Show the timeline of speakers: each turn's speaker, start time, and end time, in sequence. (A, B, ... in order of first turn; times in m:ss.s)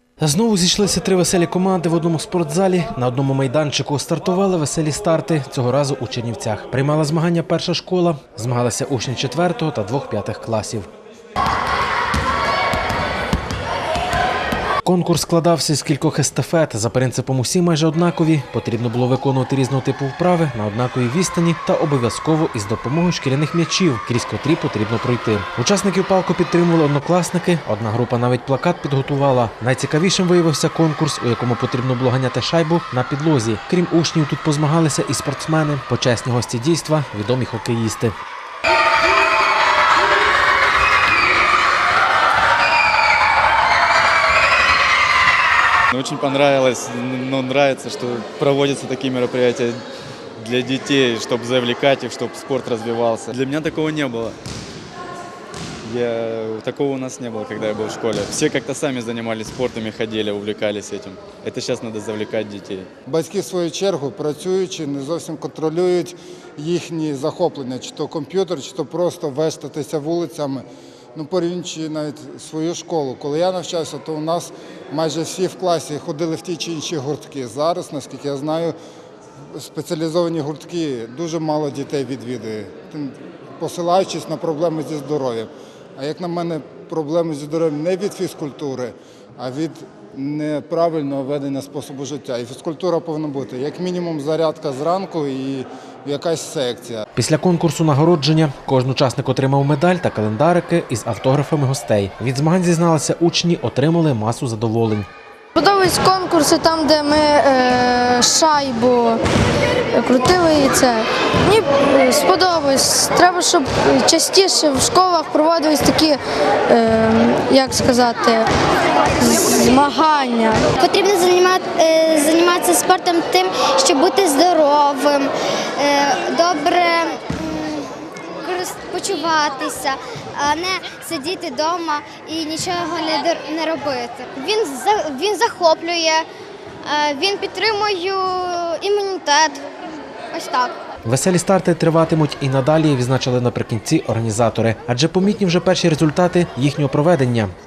0:00.2-0:10.9 A
0:14.8-0:38.1 A
0:45.9-0:49.8 B
0:50.4-0:54.4 B
0:55.8-1:02.9 B
1:03.1-1:10.6 C
1:11.1-1:18.7 C
1:19.5-1:37.0 C
1:37.1-1:45.1 A
1:45.6-1:49.2 D
1:49.9-1:56.2 D
1:56.7-1:58.5 D
1:59.2-2:00.7 D
2:00.8-2:07.9 E
2:08.4-2:16.3 E
2:16.8-2:19.6 E
2:20.3-2:20.8 E
2:21.0-2:27.5 A